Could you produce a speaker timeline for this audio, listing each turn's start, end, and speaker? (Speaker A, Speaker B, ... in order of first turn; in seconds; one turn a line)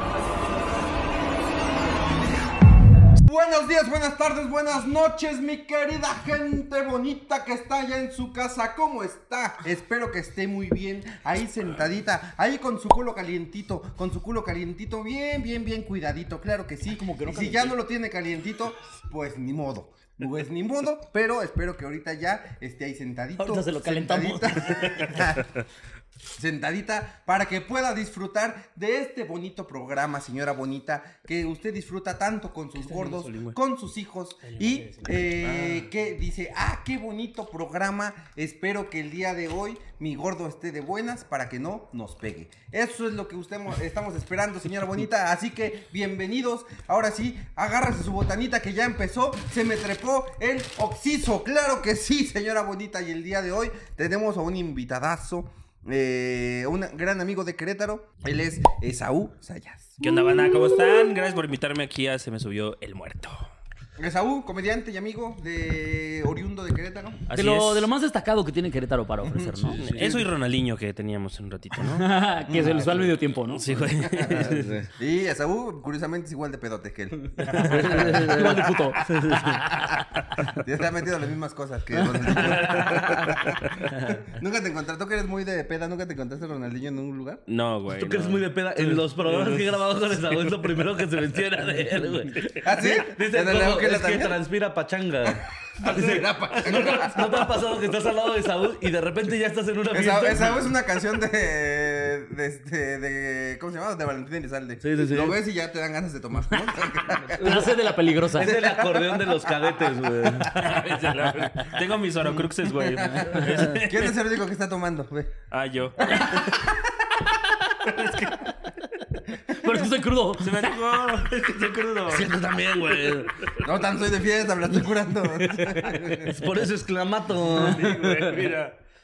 Speaker A: 3.2-25.6
Speaker B: 16.9-17.8
Speaker B: 23.4-25.3
Speaker A: 26.4-60.0
Speaker C: 32.8-33.6
Speaker C: 34.4-35.9
Speaker C: 60.0-63.5
Speaker A: 64.0-67.2
Speaker C: 67.3-67.9
Speaker B: 67.3-69.9
Speaker A: 69.2-69.8
Speaker C: 69.7-72.1
Speaker D: 69.7-70.3
Speaker B: 71.8-73.8
Speaker A: 72.5-73.1
Speaker C: 73.5-74.8
Speaker A: 74.0-78.5
Speaker D: 74.3-74.9
Speaker B: 77.6-79.9
Speaker D: 77.6-79.7
Speaker A: 80.4-87.4
Speaker C: 82.3-83.5
Speaker D: 82.9-83.4
Speaker C: 87.5-90.4
Speaker D: 87.9-100.7
Speaker A: 92.6-94.4
Speaker A: 95.8-97.5
Speaker C: 95.8-96.8
Speaker A: 99.9-109.9
Speaker D: 104.8-105.4
Speaker B: 107.3-108.5
Speaker D: 108.3-111.0
Speaker C: 110.5-114.2
Speaker B: 111.3-111.8
Speaker A: 112.8-115.3
Speaker C: 115.5-116.6
Speaker A: 116.1-116.8
Speaker C: 117.8-118.9
Speaker B: 119.5-120.8
Speaker C: 120.4-122.3
Speaker D: 122.1-123.4
Speaker C: 123.0-123.6
Speaker A: 123.6-126.5
Speaker B: 125.5-126.2
Speaker D: 126.2-128.0
Speaker C: 127.4-128.8
Speaker B: 127.8-128.4